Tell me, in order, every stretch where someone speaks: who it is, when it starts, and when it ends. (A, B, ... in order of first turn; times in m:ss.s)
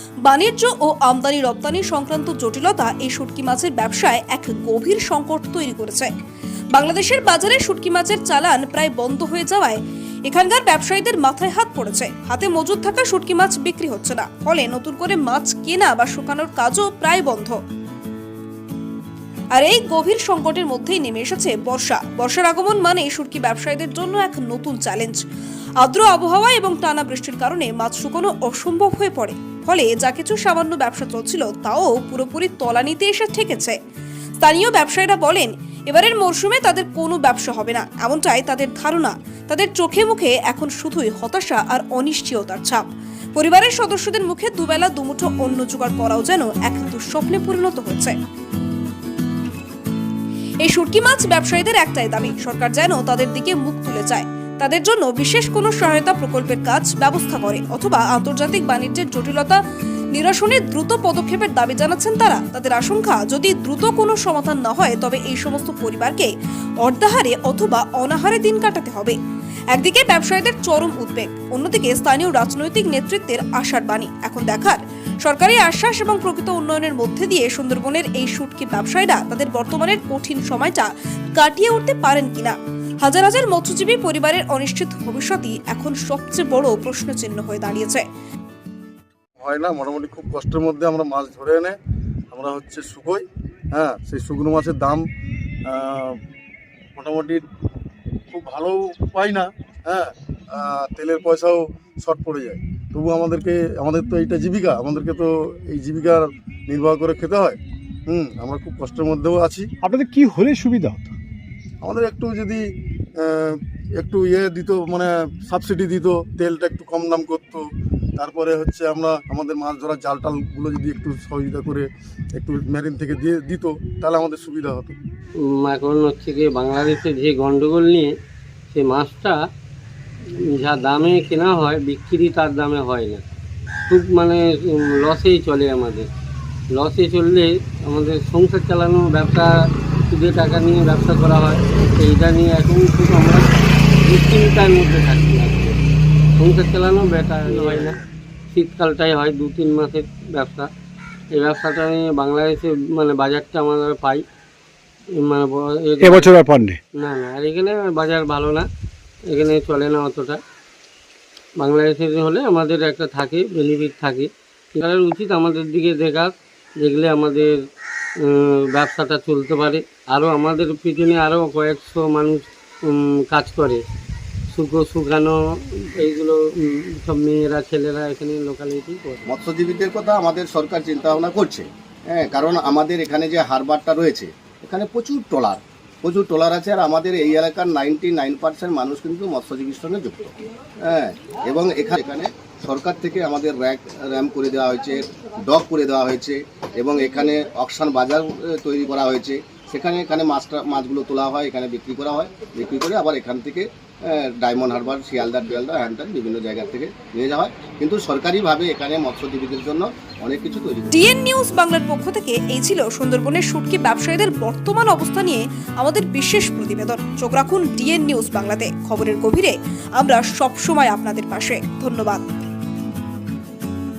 0:00.2-0:06.1 A
0:06.7-0:17.6 A
0:19.5-0:25.2 A
0:25.8-0:33.8 A
0:34.4-0:42.8 A
0:43.3-0:48.2 A
0:50.6-0:59.6 A
1:00.1-1:06.3 A
1:06.8-1:09.2 A
1:09.7-1:28.0 A
1:29.4-1:31.8 B
1:32.3-1:35.0 B
1:35.7-1:36.2 B
1:37.0-1:37.4 B
1:38.3-1:49.7 B
1:49.8-1:51.1 C
1:51.8-1:52.6 B
1:53.2-1:57.6 B
1:58.2-2:05.0 B
2:05.5-2:08.1 D
2:08.7-2:09.4 D
2:10.5-2:13.2 D
2:13.9-2:16.1 D
2:16.8-2:19.5 D
2:20.1-2:23.5 D
2:24.0-2:25.8 D
2:26.4-2:28.0 D
2:27.7-2:27.9 C
2:28.5-2:30.7 D
2:31.3-2:34.2 D
2:35.2-2:36.4 D
2:36.0-2:36.8 C
2:36.9-2:38.7 D
2:39.3-2:40.4 D
2:41.6-2:47.6 D
2:48.2-2:53.8 D
2:54.5-2:59.3 D
2:59.3-3:10.3 E
3:10.8-3:31.1 E
3:30.9-3:42.2 A